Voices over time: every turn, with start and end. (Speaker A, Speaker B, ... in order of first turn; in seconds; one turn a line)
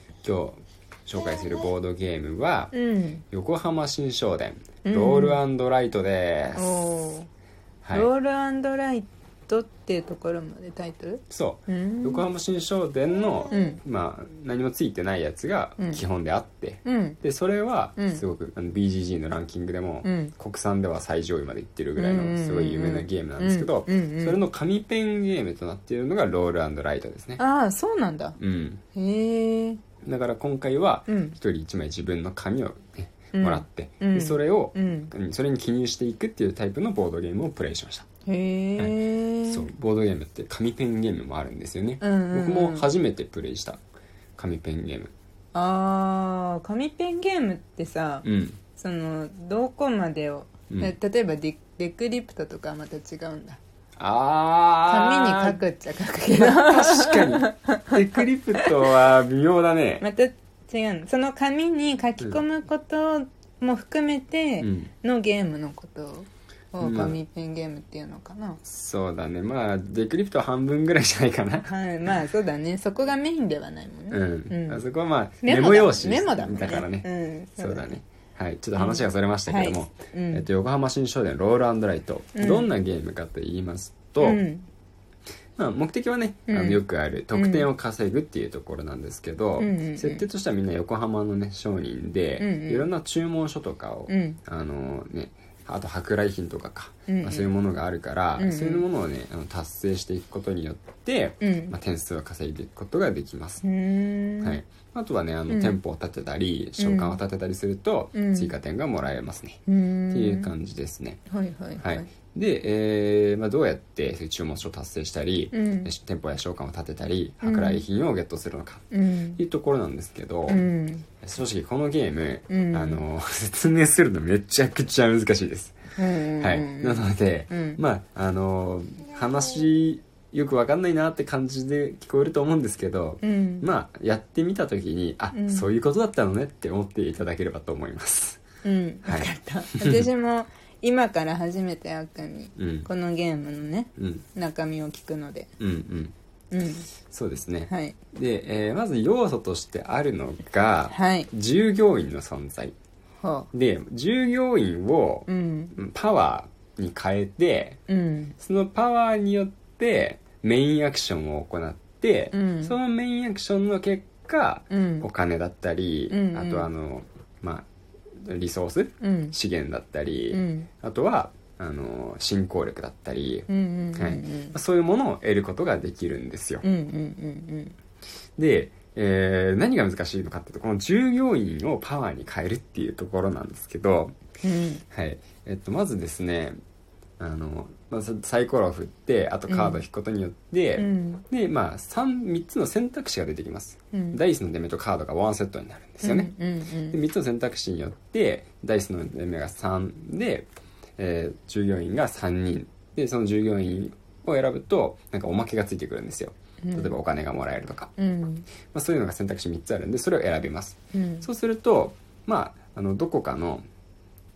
Speaker A: 0.2-2.7
Speaker B: 2.7-3.2
Speaker A: 3.3-7.0
Speaker B: 4.8-5.4
Speaker B: 6.5-7.3
Speaker A: 7.8-8.1
Speaker B: 7.9-12.2
Speaker A: 11.3-27.4
Speaker B: 13.5-13.8
Speaker B: 15.8-16.0
Speaker B: 16.8-17.2
Speaker B: 18.0-18.2
Speaker B: 20.0-20.3
Speaker B: 22.0-24.4
Speaker B: 27.4-28.4
Speaker A: 28.4-28.8
Speaker B: 28.9-29.8
Speaker A: 30.0-38.0
Speaker B: 31.1-31.4
Speaker B: 33.3-35.1
Speaker B: 38.2-39.7
Speaker A: 38.8-43.8
Speaker B: 42.0-42.9
Speaker A: 44.4-45.1
Speaker B: 45.5-48.2
Speaker A: 48.2-48.6
Speaker B: 48.8-53.6
Speaker A: 54.0-55.6
Speaker B: 54.9-58.7
Speaker A: 56.3-60.0
Speaker B: 60.0-68.6
Speaker A: 64.6-64.9
Speaker A: 66.8-67.2
Speaker A: 68.6-72.1
Speaker B: 71.7-74.8
Speaker A: 74.1-84.4
Speaker B: 75.4-77.9
Speaker B: 78.8-80.4
Speaker B: 82.4-82.7
Speaker B: 84.2-84.7
Speaker A: 85.6-103.6
Speaker B: 86.5-86.8
Speaker B: 87.3-87.7
Speaker B: 89.6-90.2
Speaker B: 92.4-92.9
Speaker B: 94.1-94.4
Speaker B: 97.1-97.5
Speaker B: 98.4-98.8
Speaker B: 101.4-101.7
Speaker B: 103.6-104.6
Speaker A: 104.4-109.6
Speaker B: 105.5-105.8
Speaker B: 106.8-107.2
Speaker B: 108.2-108.5
Speaker B: 109.7-110.5
Speaker A: 110.1-111.2
Speaker B: 111.3-112.1
Speaker A: 111.8-120.7
Speaker B: 115.5-115.9
Speaker B: 117.4-117.8
Speaker B: 118.9-119.4
Speaker B: 120.5-121.1
Speaker A: 121.2-125.8
Speaker B: 122.5-123.0
Speaker B: 126.0-127.8
Speaker A: 126.4-138.4
Speaker B: 133.2-133.7
Speaker B: 135.3-135.7
Speaker B: 138.6-145.5
Speaker A: 139.1-140.0
Speaker A: 142.6-142.9
Speaker A: 144.0-144.2
Speaker A: 145.6-146.1
Speaker B: 146.5-146.9
Speaker A: 147.1-152.8
Speaker B: 147.7-148.0
Speaker B: 150.9-151.3
Speaker B: 153.2-153.5
Speaker A: 153.5-157.8
Speaker B: 155.3-155.7
Speaker B: 157.9-158.3
Speaker A: 158.4-167.7
Speaker B: 162.3-162.8
Speaker B: 164.7-165.1
Speaker B: 166.1-166.7
Speaker A: 168.2-176.7
Speaker B: 169.0-169.3
Speaker B: 170.3-170.7
Speaker B: 173.5-174.6
Speaker B: 176.6-177.8
Speaker A: 178.4-184.2
Speaker B: 184.4-184.8
Speaker A: 184.9-186.6
Speaker A: 187.2-196.3
Speaker B: 189.5-189.8
Speaker B: 190.8-191.2
Speaker B: 193.9-194.2
Speaker B: 196.0-197.0
Speaker A: 196.9-207.9
Speaker B: 206.6-206.9
Speaker B: 208.0-208.5
Speaker A: 208.6-213.7
Speaker B: 210.9-211.3